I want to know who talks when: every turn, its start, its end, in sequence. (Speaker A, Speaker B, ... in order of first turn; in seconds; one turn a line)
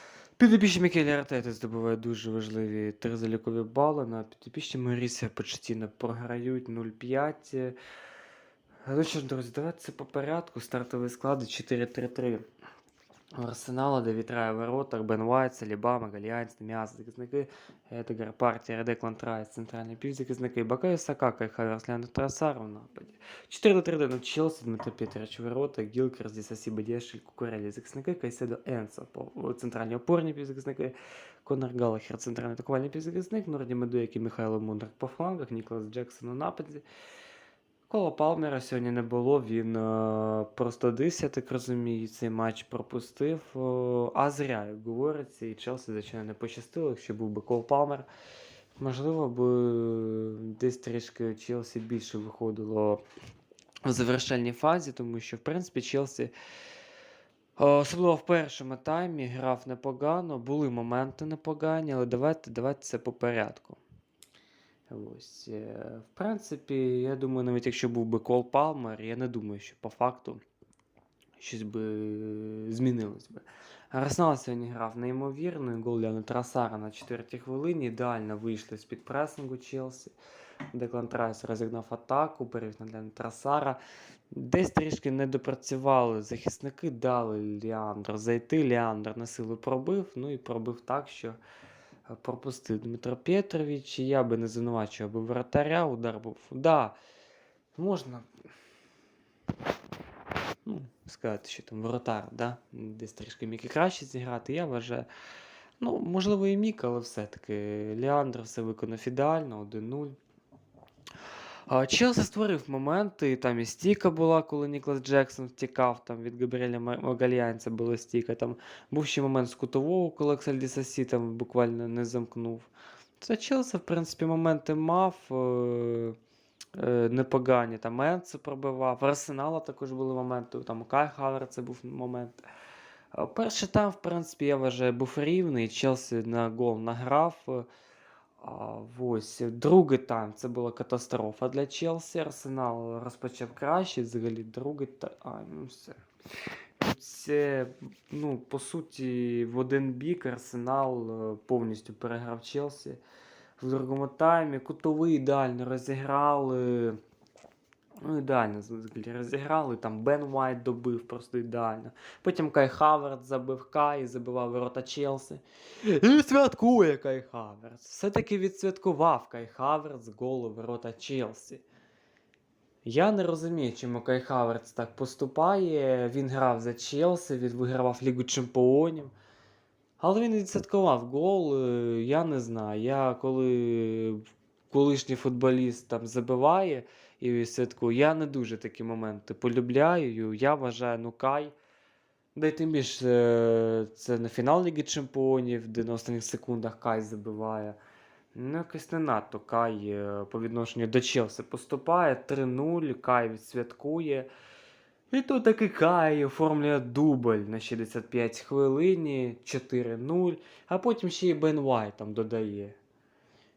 Speaker A: 0.4-7.8
Speaker A: 8.9-12.4
Speaker A: 13.3-36.8
Speaker A: 37.9-48.1
Speaker A: 48.8-53.0
Speaker A: 53.8-56.3
Speaker A: 57.6-63.8
Speaker A: 64.9-70.4
Speaker A: 71.4-80.1
Speaker A: 80.7-83.8
Speaker A: 84.3-91.4
Speaker A: 92.1-97.0
Speaker A: 97.8-98.3
Speaker A: 100.6-105.1
Speaker A: 105.8-110.2
Speaker A: 111.7-126.2
Speaker A: 126.7-132.4
Speaker A: 133.1-137.7
Speaker A: 138.4-146.0
Speaker A: 146.8-153.0
Speaker A: 153.6-157.0
Speaker A: 158.0-171.6
Speaker A: 172.8-179.1
Speaker A: 180.0-191.5
Speaker A: 192.3-197.8
Speaker A: 198.3-204.3
Speaker A: 205.1-212.8